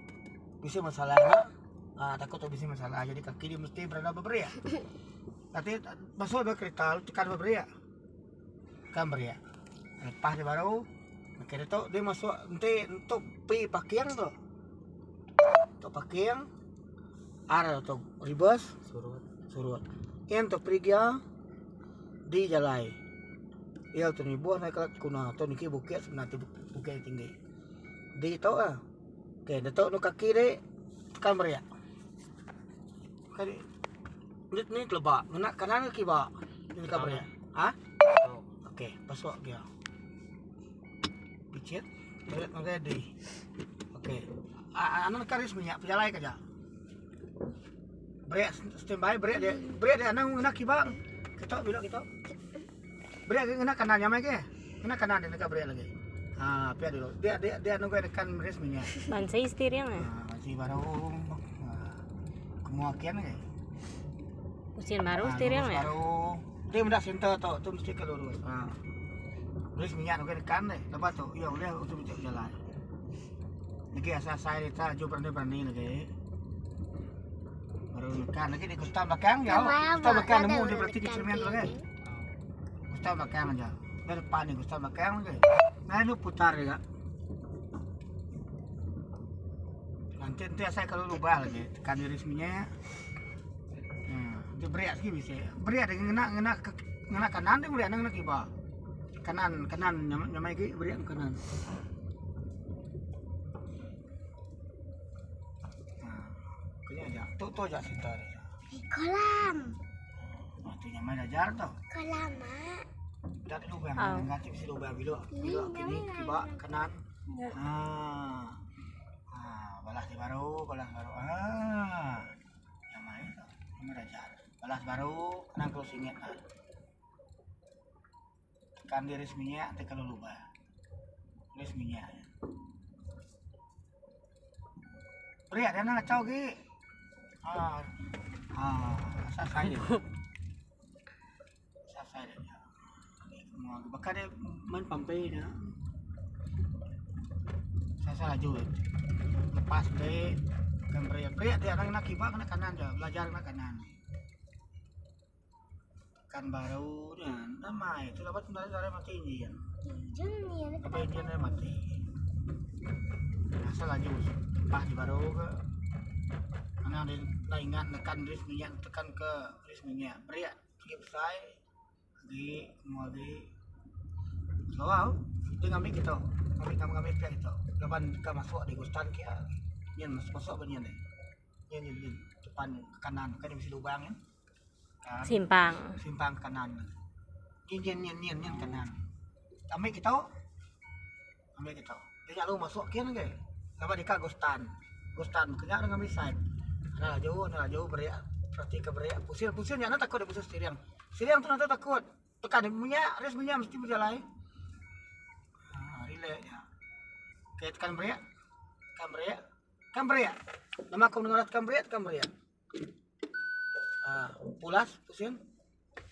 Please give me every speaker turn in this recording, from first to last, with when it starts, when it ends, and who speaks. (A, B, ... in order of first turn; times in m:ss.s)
0:00.6-0:04.6 A
0:05.5-0:07.7 A
0:08.9-0:09.4 A
0:10.0-0:14.3 A
0:15.8-0:16.5 A
0:17.5-0:18.8 A
0:19.5-0:21.2 A
0:22.2-0:23.0 A
0:23.9-0:27.3 A
0:28.1-0:28.8 A
0:29.4-0:30.6 A
0:31.1-0:31.6 A
0:33.3-0:33.7 A
0:34.5-0:37.8 A
0:38.6-0:39.7 A
0:41.5-0:43.1 A
0:43.9-0:46.4 A
0:48.3-0:52.1 A
0:53.2-0:59.0 A
0:59.0-1:00.1 B
1:00.0-1:02.0 A
1:02.6-1:03.4 A
1:04.8-1:05.9 B
1:05.2-1:08.8 A
1:09.7-1:12.6 A
1:13.9-1:16.1 A
1:17.9-1:21.7 A
1:19.4-1:21.9 C
1:22.9-1:26.8 A
1:30.2-1:32.7 A
1:34.1-1:38.5 A
1:39.2-1:41.5 A
1:46.0-1:48.5 A
1:48.7-1:49.8 C
1:50.5-1:51.8 A
1:51.9-1:52.9 C
1:53.4-1:58.6 A
1:54.0-1:54.3 B
1:55.3-1:56.9 C
1:59.3-2:02.3 A
2:02.9-2:06.4 A
2:08.8-2:10.5 A
2:11.5-2:12.3 A
2:15.5-2:16.6 A
2:17.4-2:17.9 A
2:18.5-2:20.0 A
2:21.9-2:25.8 A
2:28.0-2:28.8 A
2:29.4-2:34.0 A
2:36.3-2:39.6 A
2:39.8-2:41.7 C
2:40.8-2:42.0 A
2:43.6-2:45.6 A
2:46.8-2:51.6 A
2:52.2-2:53.5 A
2:54.7-3:01.0 A
3:01.7-3:04.2 A
3:05.0-3:06.9 A
3:05.2-3:06.0 B
3:07.7-3:09.0 A
3:09.7-3:10.3 A
3:11.6-3:16.4 A
3:16.9-3:24.2 A
3:25.7-3:26.6 A
3:27.6-3:28.2 A
3:28.9-3:29.4 A
3:29.9-3:30.4 A
3:30.9-3:32.3 A
3:34.0-3:35.4 A